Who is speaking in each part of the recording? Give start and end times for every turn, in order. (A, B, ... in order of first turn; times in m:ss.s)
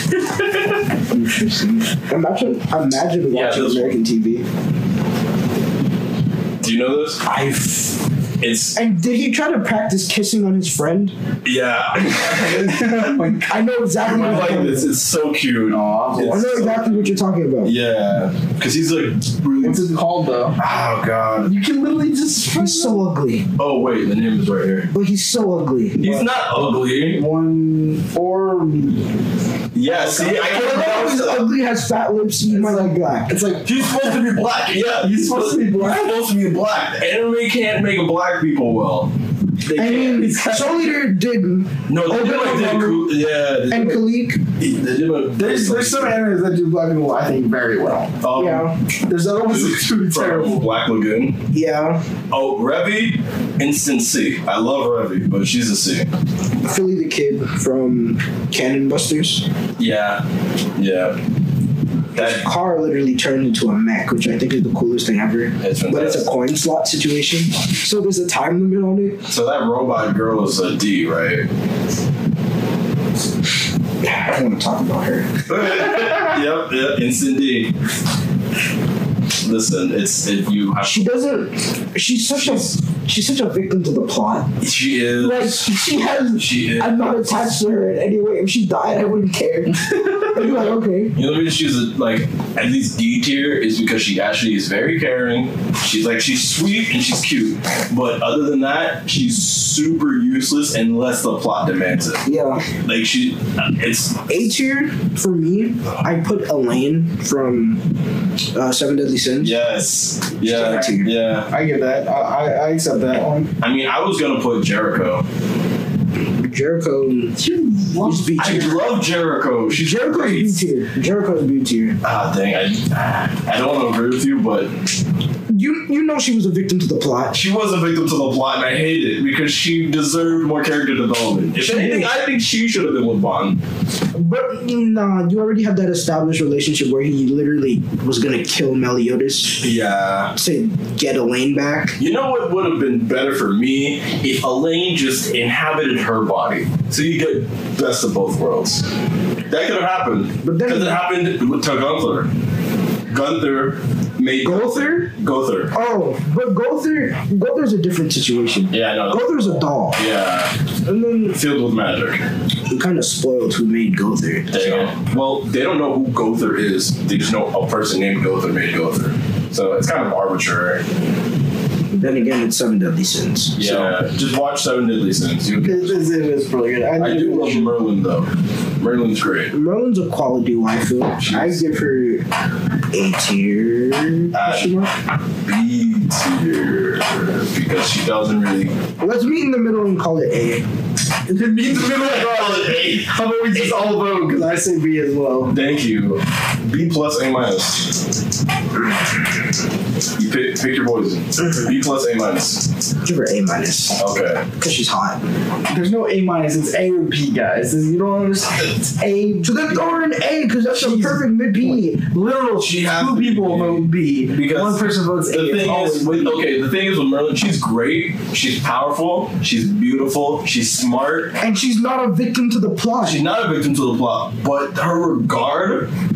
0:01.1-0:04.4 A
0:03.3-0:04.0 B
0:06.6-0:07.2 B
0:07.2-0:08.0 A
0:08.4-0:08.8 B
0:08.7-0:11.1 A
0:11.4-0:12.8 B
0:12.1-0:14.8 C
0:13.5-0:14.9 A
0:14.0-0:19.9 B
0:15.7-0:16.6 C
0:16.3-0:17.7 A
0:19.6-0:20.6 C
0:20.6-0:21.5 B
0:21.4-0:23.0 C
0:22.6-0:23.5 A
0:23.6-0:24.9 B
0:24.9-0:26.2 A
0:26.0-0:27.2 B
0:27.1-0:29.1 C
0:29.7-0:31.5 B
0:29.8-0:30.6 C
0:30.4-0:33.4 A
0:32.5-0:34.2 C
0:33.6-0:39.1 B
0:35.0-0:36.1 C
0:39.6-0:40.3 B
0:39.7-0:43.1 A
0:39.7-0:41.0 C
0:41.9-0:44.0 B
0:42.1-0:42.9 C
0:43.7-0:44.4 A
0:44.6-0:46.2 B
0:45.4-0:48.2 C
0:48.2-0:48.8 B
0:48.3-0:48.8 A
0:49.1-0:50.6 C
0:49.4-0:51.4 B
0:51.5-0:52.0 A
0:52.3-0:56.1 B
0:56.6-0:59.4 A
0:59.8-1:00.2 B
1:00.8-1:01.2 B
1:02.1-1:02.4 B
1:02.1-1:09.2 A
1:05.6-1:06.3 B
1:09.3-1:11.5 B
1:14.0-1:15.5 A
1:15.5-1:17.7 B
1:19.4-1:21.1 B
1:20.8-1:24.5 A
1:22.3-1:22.8 B
1:24.6-1:25.8 B
1:25.2-1:31.2 A
1:26.3-1:27.0 B
1:30.4-1:44.4 B
1:42.2-1:42.6 A
1:44.3-1:47.8 A
1:48.5-1:49.6 A
1:49.4-1:51.5 B
1:50.4-1:51.1 A
1:51.5-1:53.5 C
1:53.6-1:55.2 B
1:56.4-1:57.4 A
1:57.4-1:58.7 C
1:58.0-1:58.8 A
1:58.4-2:00.6 B
1:59.7-2:02.0 A
2:02.0-2:04.7 B
2:05.5-2:07.4 A
2:07.3-2:13.6 B
2:11.6-2:12.1 A
2:14.1-2:19.7 A
2:19.6-2:20.3 B
2:20.4-2:22.0 A
2:22.0-2:28.8 B
2:29.5-2:32.3 B
2:30.4-2:31.0 A
2:33.1-2:35.7 B
2:34.4-2:35.1 A
2:35.7-2:40.0 A
2:38.7-2:40.5 B
2:40.8-2:41.4 A
2:41.3-2:42.2 B
2:42.7-2:44.9 A
2:44.5-2:50.8 B
2:52.0-2:53.9 A
2:53.6-2:56.0 B
2:55.6-2:57.8 C
2:57.0-2:59.5 B
2:59.5-3:02.3 A
3:01.2-3:01.6 B
3:02.9-3:04.7 A
3:04.3-3:04.9 B
3:04.4-3:04.9 C
3:05.4-3:08.7 B
3:09.0-3:10.6 A
3:11.3-3:15.5 C
3:11.7-3:13.8 B
3:15.5-3:18.0 B
3:20.2-3:22.7 B
3:23.0-3:24.0 A
3:24.0-3:24.4 B
3:24.6-3:25.2 A
3:25.7-3:30.0 C
3:29.4-3:32.0 A
3:30.7-3:36.4 C
3:32.6-3:41.4 B
3:41.4-3:43.2 A
3:43.0-3:45.9 B